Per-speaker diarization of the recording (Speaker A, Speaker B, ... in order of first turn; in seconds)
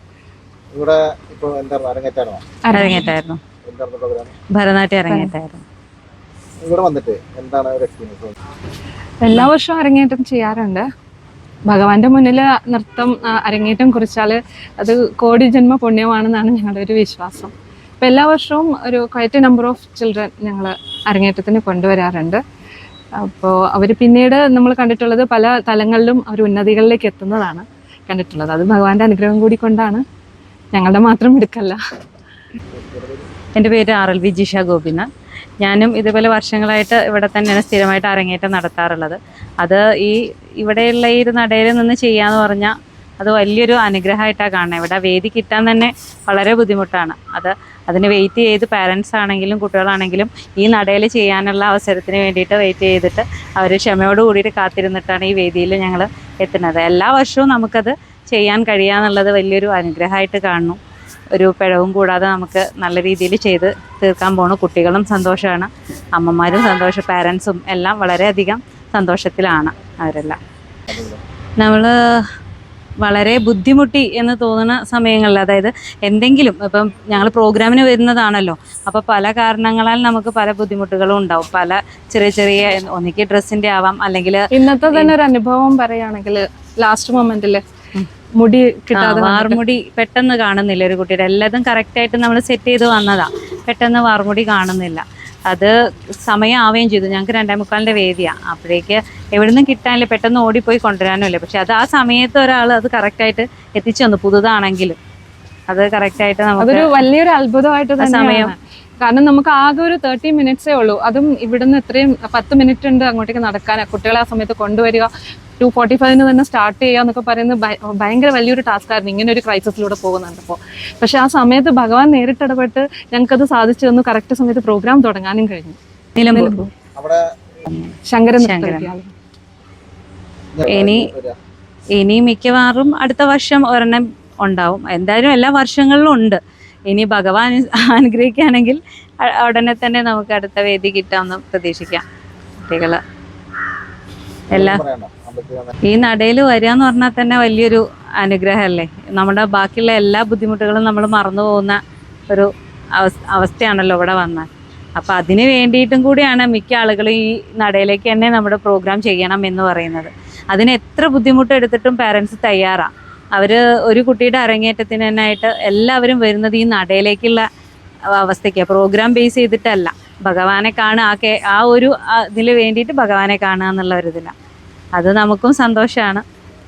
Speaker A: 0.7-2.4, 3.6-4.3, 6.6-8.3, 32.7-33.3, 70.9-71.2, 127.0-127.3, 130.6-131.3, 144.5-145.7
Speaker B: 2.7-3.1, 9.2-10.9, 11.7-22.4, 23.2-30.0, 30.7-31.8, 84.5-87.6, 88.4-89.6, 106.6-125.8, 126.3-126.7, 128.1-129.1
Speaker C: 2.7-3.4, 4.6-5.6, 33.6-35.1, 35.6-60.8, 61.3-70.4, 71.6-71.9, 73.0-85.2, 88.9-95.7, 96.3-105.0, 105.7-106.9, 108.0-108.5, 126.2-126.5, 127.7-128.9, 130.7-131.1, 132.0-136.4, 136.9-142.1, 142.6-143.0, 144.5-144.8, 145.9-151.8, 152.3-167.5, 168.2-174.3, 175.0-176.2